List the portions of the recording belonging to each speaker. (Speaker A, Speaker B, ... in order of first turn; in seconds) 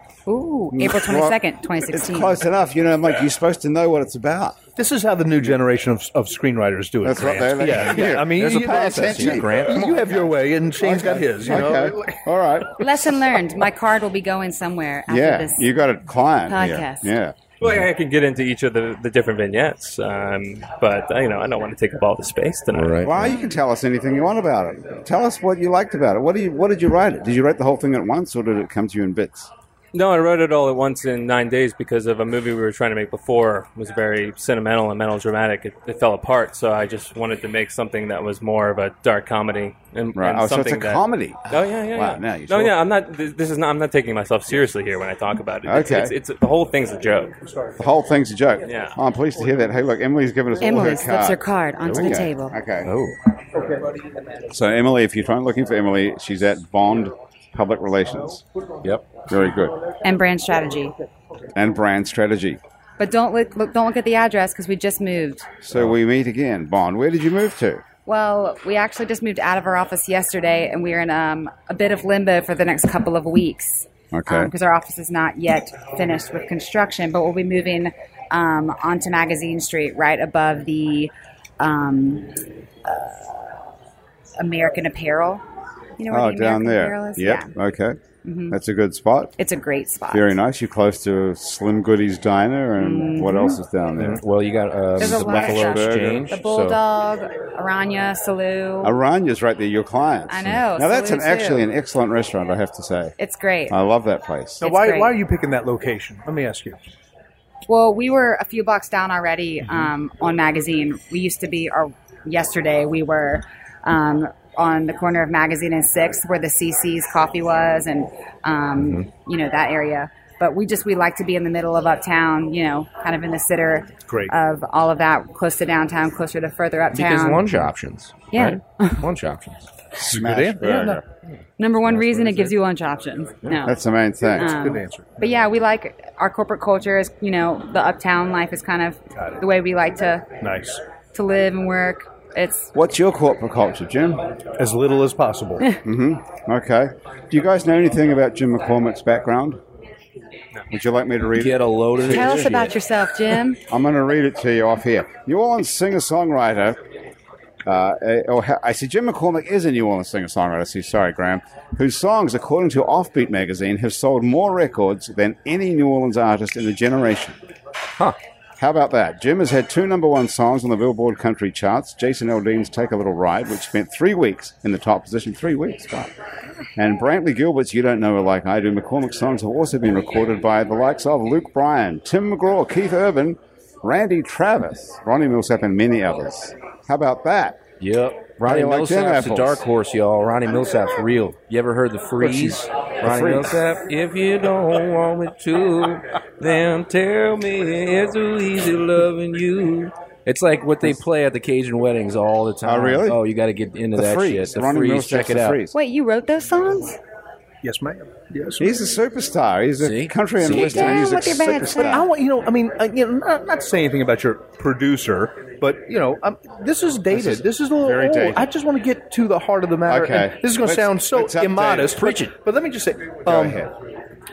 Speaker A: 0.3-2.4, 12.8-15.7, 16.5-17.1, 23.2-23.6, 50.6-52.6, 60.0-60.9, 63.0-65.5, 68.1-83.5, 84.4-85.4, 86.0-87.5, 88.2-88.6, 89.4-90.4, 92.8-93.6, 95.0-98.9, 100.3-101.7, 103.2-103.8, 104.6-105.2, 107.7-127.7, 128.3-129.1, 130.7-130.9, 131.6-133.8, 134.3-140.3, 141.1-142.7, 152.0-153.6, 205.7-207.0, 210.5-212.1
Speaker B: 0.7-4.6, 7.0-10.0, 10.8-13.0, 15.1-17.5, 23.1-29.5, 40.1-42.8, 45.6-46.1, 47.8-52.9, 54.5-58.4, 59.3-59.8, 61.5-62.6, 65.6-67.8, 74.1-74.5, 86.1-88.0, 88.5-89.3, 90.1-94.2, 95.0-96.3, 98.8-103.2, 103.7-104.7, 130.0-131.0, 133.6-134.6, 142.7-144.3, 145.8-149.6, 150.7-152.3, 153.7-156.8, 157.7-167.4, 168.6-176.1, 176.8-187.6, 188.4-189.7, 192.2-193.6, 202.6-203.2, 203.9-205.8, 208.6-212.1, 217.1-218.5, 219.9-222.0, 223.3-223.7
Speaker C: 4.8-12.2, 104.6-106.8, 124.1-124.3, 130.1-131.0, 134.4-135.1, 139.2-139.4, 140.4-140.8, 144.6-145.7, 207.6-208.7, 211.9-223.7
Speaker D: 7.7-10.3, 22.7-23.3, 52.9-53.2, 58.8-59.1, 94.0-96.8, 126.9-129.7, 151.3-152.8, 187.8-205.6, 209.8-211.4, 221.9-222.4
Speaker E: 17.6-23.1, 29.9-47.4, 48.7-49.0